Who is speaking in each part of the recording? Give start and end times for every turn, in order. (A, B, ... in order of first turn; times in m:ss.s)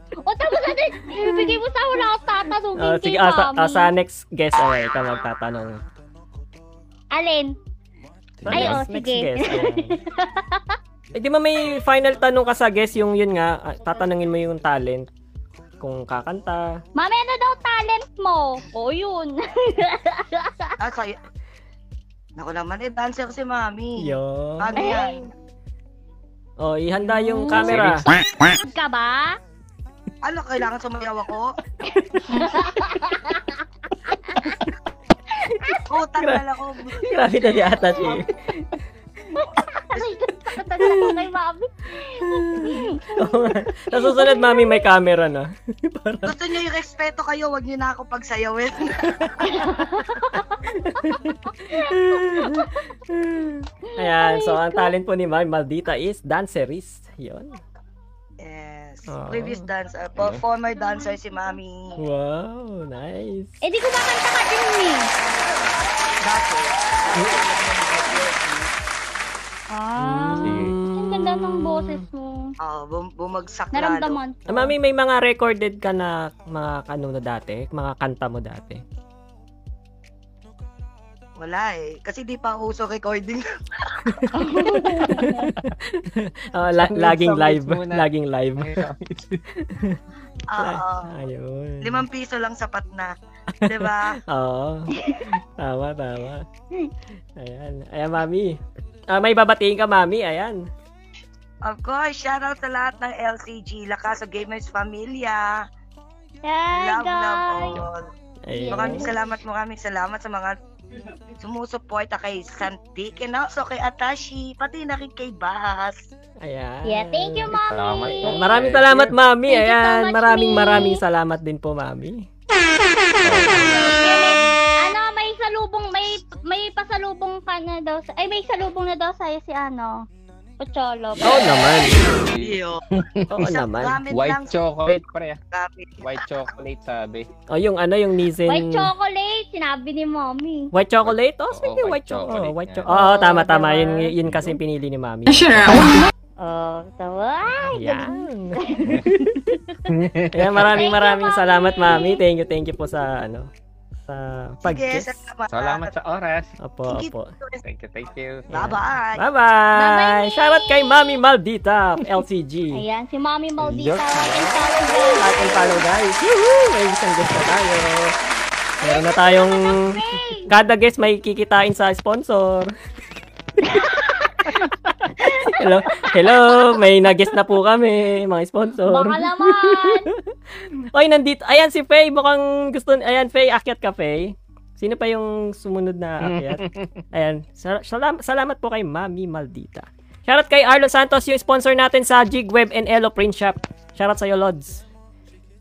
0:00.2-0:03.9 A
0:01.2-0:01.6 B
0:02.8-0:05.8 B
0:07.1-0:07.5 A
0:08.4-0:08.8 C
0:08.4-0:10.0 B
0:08.5-0:10.8 A
0:11.1-0:15.1 B
0:15.8-0:16.8 B
0:17.0-0:20.8 A
0:20.8-0:21.2 D
0:22.4-0:25.3 D
0:24.0-0:24.9 B
0:24.8-0:25.2 A
0:26.6-0:28.1 B
0:27.1-0:27.8 A
0:27.6-0:28.1 C
0:28.4-0:29.4 A
0:30.2-0:31.5 D
0:32.3-0:34.4 A
0:35.9-0:37.2 D
0:37.0-0:38.3 B
0:39.4-0:43.4 A
0:40.8-0:41.2 B
0:42.2-0:46.4 B
0:43.9-0:44.8 A
0:46.2-0:49.3 D
0:49.4-0:50.6 A
0:50.7-0:57.6 B
0:51.7-0:52.7 A
0:53.9-0:54.9 A
0:58.4-1:02.0 D
0:59.1-0:59.7 B
1:02.0-1:03.6 B
1:03.6-1:05.1 A
1:06.2-1:08.7 D
1:09.7-1:12.5 A
1:10.0-1:12.0 B
1:10.4-1:10.8 C
1:12.6-1:14.2 D
1:13.7-1:14.7 A
1:14.5-1:18.8 B
1:21.4-1:24.3 D
1:24.1-1:28.9 B
1:24.4-1:25.5 A
1:26.8-1:29.4 C
1:29.6-1:30.0 B
1:30.5-1:31.2 D
1:30.6-1:32.1 B
1:31.8-1:33.1 D
1:33.6-1:36.4 B
1:33.6-1:34.2 D
1:35.0-1:35.3 A
1:37.4-1:38.6 B
1:39.1-1:40.6 B
1:41.6-1:45.6 D
1:46.4-1:47.8 A
1:46.7-1:48.1 D
1:48.5-1:49.1 B
1:48.5-1:49.2 A
1:48.7-1:50.6 D
1:51.4-1:56.0 D
1:56.4-2:02.3 B
1:56.8-1:58.5 A
1:57.5-1:59.2 C
1:59.5-2:01.0 A
2:03.2-2:04.0 C
2:03.8-2:10.1 A
2:10.6-2:11.5 A
2:11.2-2:12.0 B
2:12.3-2:13.4 C
2:12.3-2:12.8 D
2:13.3-2:14.0 B
2:13.4-2:14.6 D
2:14.1-2:15.4 C
2:15.5-2:16.1 D
2:16.0-2:17.3 C
2:17.5-2:18.9 B
2:18.5-2:20.7 A
2:20.7-2:26.0 B
2:21.5-2:22.9 C
2:22.9-2:24.1 A
2:24.3-2:24.6 C
2:26.4-2:29.8 A
2:27.8-2:29.4 B
2:29.9-2:30.7 C
2:30.3-2:33.5 B
2:30.7-2:32.2 A
2:34.1-2:35.1 B
2:34.6-2:35.9 D
2:35.5-2:36.5 C
2:36.6-2:37.3 B
2:36.9-2:37.6 D
2:37.6-2:38.5 C
2:38.5-2:39.2 D
2:38.5-2:42.8 B
2:39.7-2:41.2 A
2:42.7-2:45.8 A
2:43.6-2:44.5 C
2:45.2-2:48.2 B
2:48.8-2:50.5 A
2:48.8-2:52.7 B
2:53.6-2:56.7 A
2:55.0-3:14.8 B
2:58.9-3:00.1 A
3:06.2-3:07.0 C